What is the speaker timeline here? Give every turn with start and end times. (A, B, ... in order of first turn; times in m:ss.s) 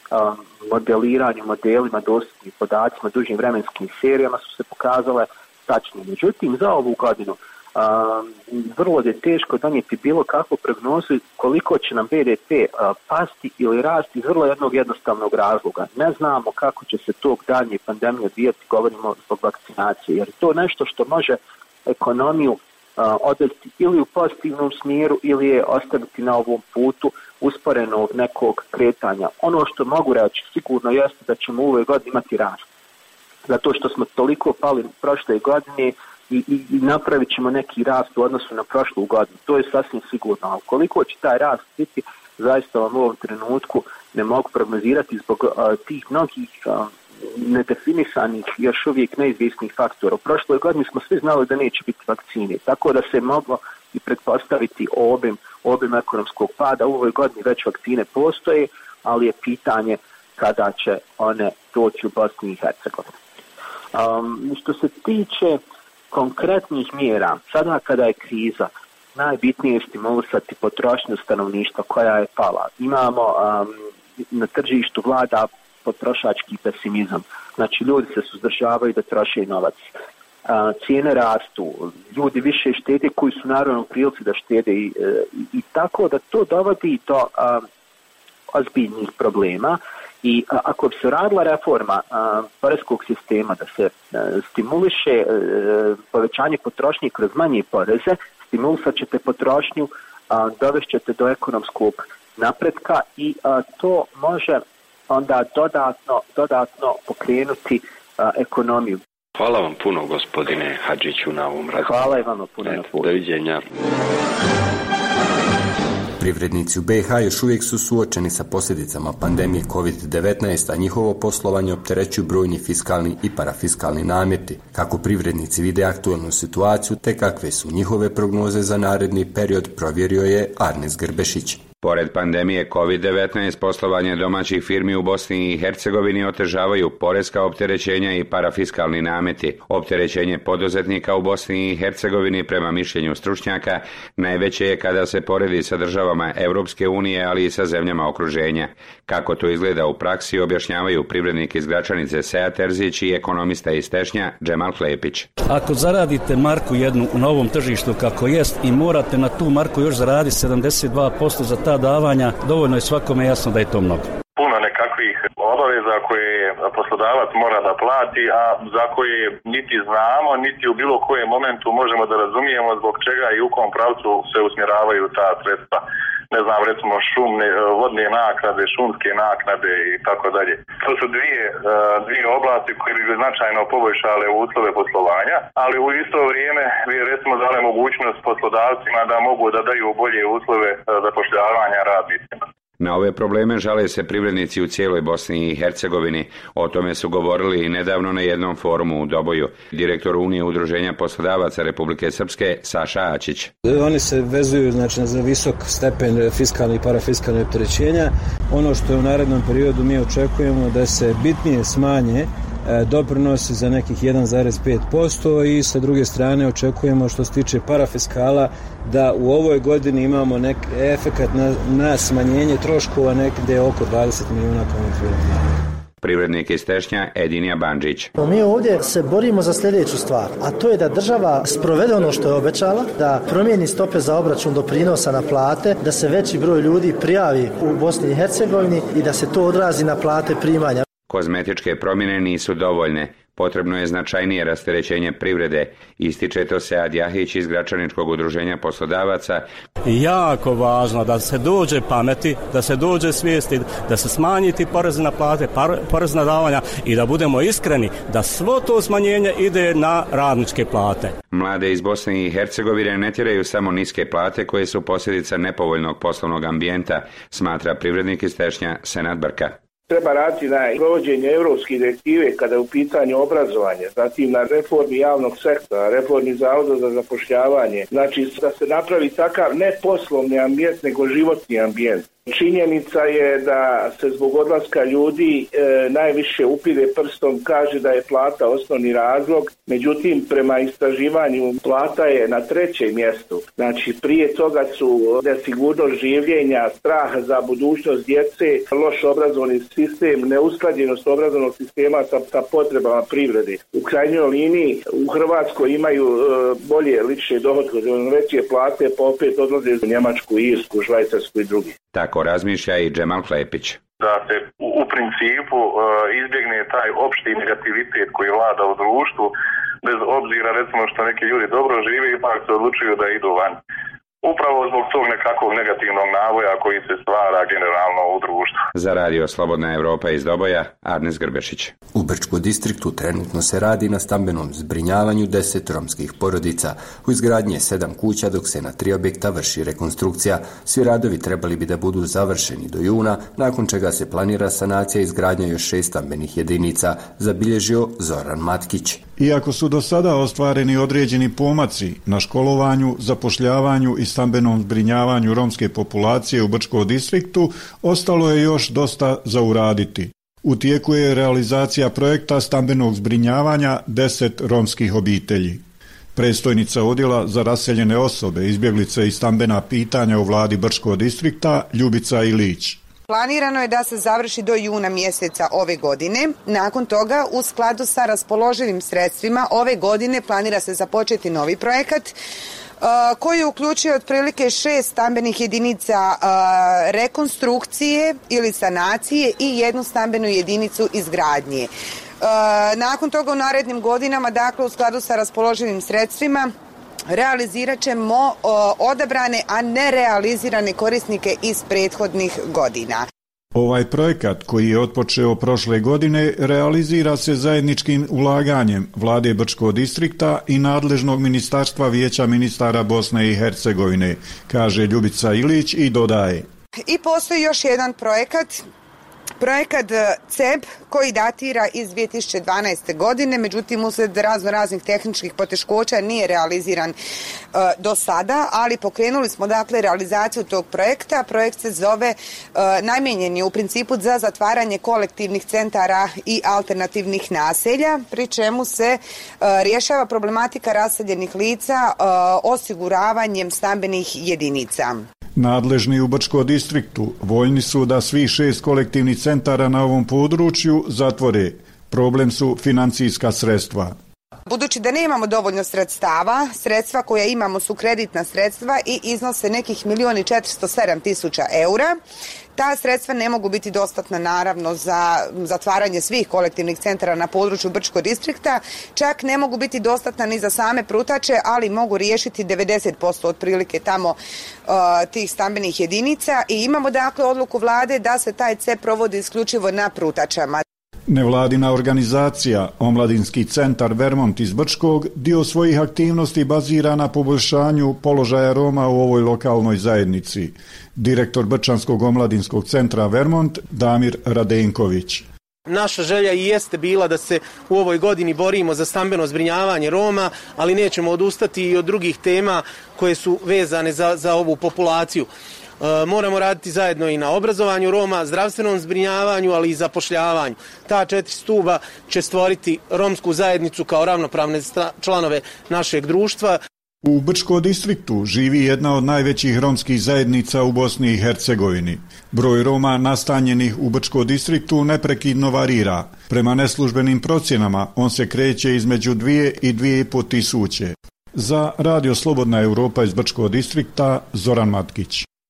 0:00.1-0:32.6 A
0:33.5-1:03.1 A
1:03.9-1:05.6 A
1:06.1-1:19.9 A
1:20.4-1:27.6 A
1:28.5-1:49.0 A
1:49.4-1:53.7 B
1:51.8-1:53.1 A
1:56.2-2:11.6 C
2:11.8-2:35.3 D
2:35.5-2:44.0 E
2:44.4-3:12.3 F
3:12.8-3:23.5 D
3:23.6-3:45.4 G
3:46.0-3:48.1 D
3:48.2-4:00.8 H
4:01.1-4:09.4 D
4:09.9-4:21.1 E
4:21.3-4:29.5 D
4:29.9-5:11.7 I
5:11.9-5:13.8 D
5:14.0-5:23.6 F
5:24.2-5:28.6 F
5:28.7-5:31.7 D
5:31.9-5:49.0 C
5:49.2-6:05.6 J
6:06.1-6:12.8 J
6:13.1-6:22.2 K
6:22.8-6:36.5 K
6:37.1-6:43.0 K
6:43.5-6:56.4 J
6:56.9-6:58.6 K
6:59.4-7:06.9 K
7:07.5-7:25.0 K
7:25.4-7:33.9 J
7:34.5-7:42.0 K
7:42.6-8:00.6 K
8:01.1-8:15.2 J
8:15.7-8:25.3 L
8:25.8-8:36.6 L
8:37.0-8:55.2 J